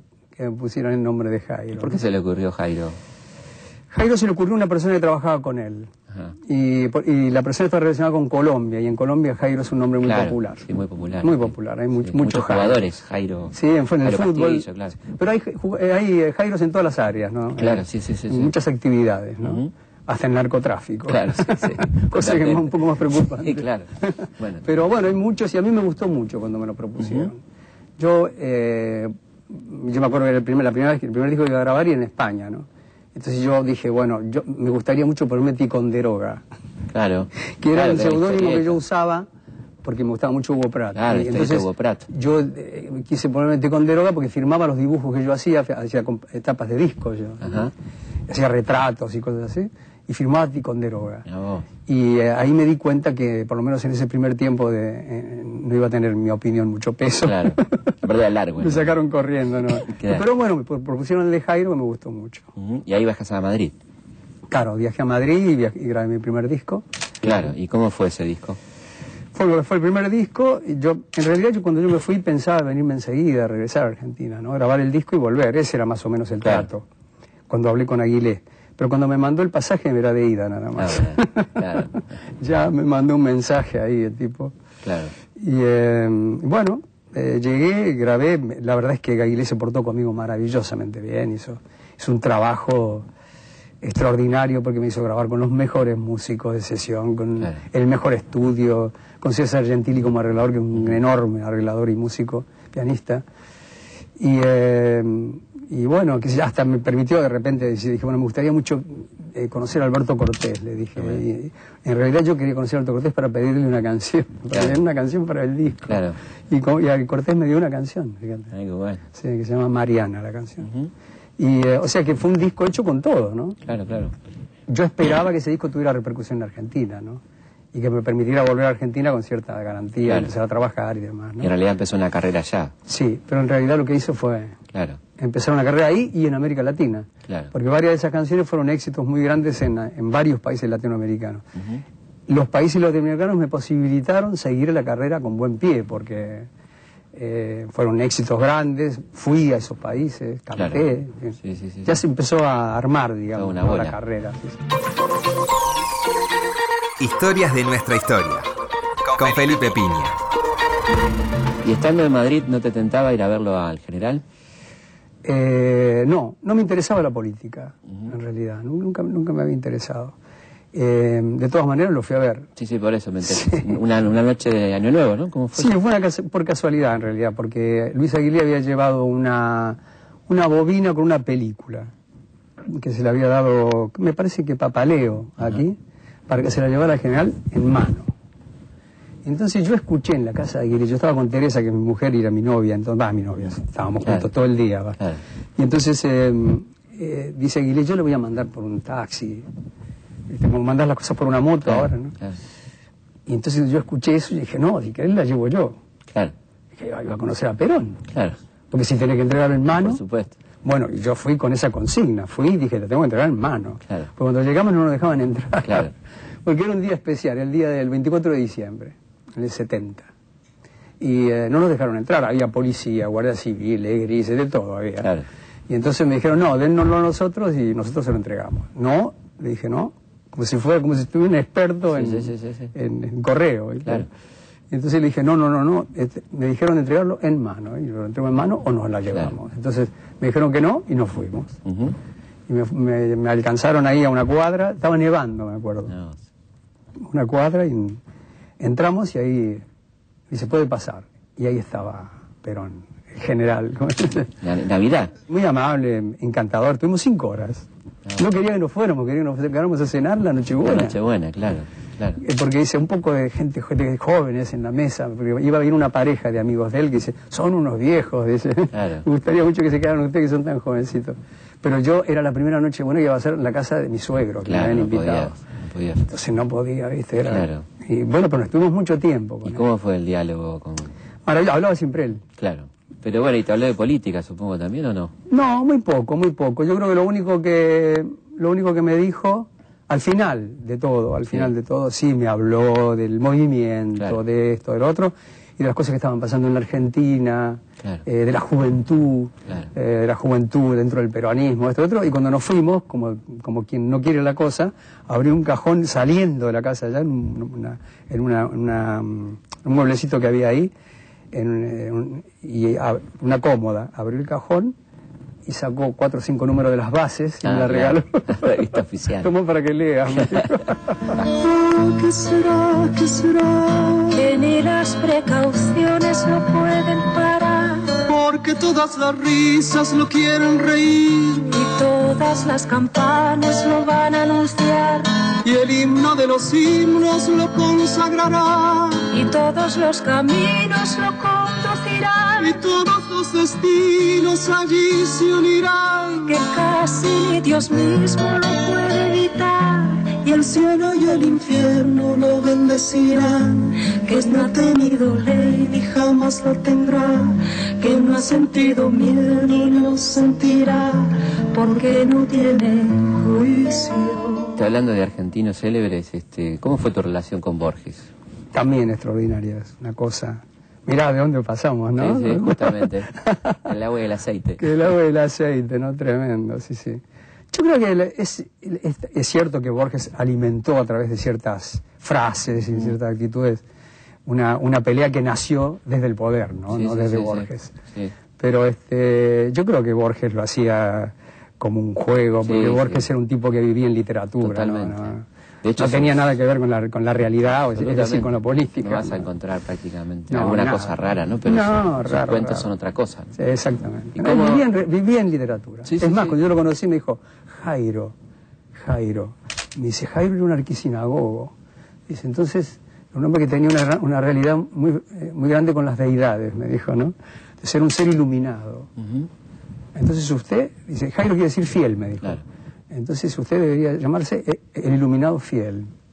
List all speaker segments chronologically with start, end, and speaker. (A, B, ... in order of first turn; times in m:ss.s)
0:00.4-0:02.0 A
0:01.8-0:03.0 B
0:03.9-0:05.9 A
0:06.5-0:10.7 A
0:10.0-0:15.0 B
0:11.2-0:12.9 A
0:13.5-0:27.4 A
0:17.6-0:18.5 B
0:19.4-0:19.7 B
0:21.1-0:24.6 B
0:27.0-0:27.3 B
0:28.0-0:36.4 A
0:36.9-0:38.8 B
0:37.6-0:39.3 A
0:39.8-0:47.7 A
0:41.0-0:42.1 B
0:47.4-0:47.7 B
0:48.3-0:51.3 A
0:51.3-0:51.7 B
0:51.9-0:58.0 A
0:57.2-0:58.9 B
0:58.6-1:02.5 A
0:59.6-1:00.2 B
1:02.6-1:03.7 B
1:04.5-1:06.8 A
1:07.2-1:08.6 B
1:09.3-1:16.8 A
1:17.5-1:24.5 A
1:20.8-1:22.0 B
1:24.8-1:25.1 B
1:25.4-1:33.1 A
1:33.8-1:43.2 A
1:44.2-1:58.5 A
1:55.9-1:56.2 B
1:58.5-1:59.0 B
1:59.1-2:00.7 A
2:00.7-2:00.9 B
2:01.4-2:03.6 A
2:03.6-2:04.2 B
2:04.7-2:07.2 A
2:07.7-2:11.5 A
2:10.0-2:10.3 B
2:11.4-2:12.7 B
2:12.9-2:14.6 A
2:14.7-2:15.0 B
2:15.2-2:21.5 A
2:17.3-2:17.5 B
2:21.6-2:21.8 B
2:22.3-2:26.5 A
2:27.1-2:34.6 A
2:30.6-2:30.8 B
2:31.4-2:32.0 B
2:33.4-2:34.0 B
2:37.0-2:38.5 C
2:39.1-2:40.2 C
2:41.6-2:44.2 B
2:45.2-2:50.2 A
2:50.7-2:52.5 A
2:52.6-2:55.8 B
2:53.2-2:53.7 A
2:55.6-3:01.9 A
3:02.6-3:08.1 A
3:09.2-3:15.0 A
3:14.0-3:14.3 B
3:15.6-3:19.5 A
3:20.3-3:22.2 A
3:21.6-3:22.4 B
3:23.3-3:25.8 A
3:26.8-3:28.0 A
3:28.1-3:28.4 B
3:28.7-3:30.0 A
3:29.8-3:30.4 B
3:30.6-3:35.9 A
3:35.6-3:35.9 B
3:36.4-3:40.1 A
3:41.0-3:45.1 A
3:45.0-3:45.3 B
3:45.7-3:54.1 A
3:51.9-3:52.7 B
3:54.7-4:01.6 A
4:01.6-4:02.0 B
4:02.5-4:05.9 A
4:05.9-4:06.2 B
4:07.1-4:08.0 A
4:08.6-4:09.6 A
4:10.3-4:14.3 A
4:14.4-4:15.1 B
4:15.3-4:21.0 A
4:20.6-4:22.2 B
4:22.2-4:35.4 A
4:28.7-4:29.1 B
4:34.5-4:36.1 B
4:36.0-4:39.6 A
4:37.3-4:37.7 B
4:39.4-4:40.9 B
4:41.3-4:42.2 A
4:42.4-4:45.1 B
4:45.3-5:10.7 A
5:11.3-5:14.7 A
5:15.5-5:21.2 A
5:17.4-5:19.3 B
5:20.2-5:20.6 B
5:21.8-5:23.8 D
5:24.1-5:28.0 E
5:28.1-5:31.3 D
5:31.5-5:35.2 E
5:35.5-5:38.9 D
5:39.1-5:42.6 E
5:42.5-5:46.1 D
5:46.3-5:50.6 E
5:53.1-6:04.5 E
6:04.6-6:08.1 B
6:08.5-6:13.6 A
6:12.0-6:13.1 B
6:13.6-6:14.7 B
6:14.6-6:17.0 A
6:17.5-6:23.6 A
6:24.3-6:27.8 A
6:26.7-6:28.2 B
6:28.4-6:35.2 A
6:32.4-6:33.1 B
6:34.4-6:36.3 B
6:35.8-6:39.3 A
6:37.5-6:43.3 B
6:40.3-6:42.7 A
6:43.4-6:48.1 A
6:44.2-6:44.6 B
6:45.9-6:46.4 B
6:48.8-6:51.5 A
6:52.1-6:58.9 A
6:59.0-6:59.3 B
7:00.0-7:05.9 A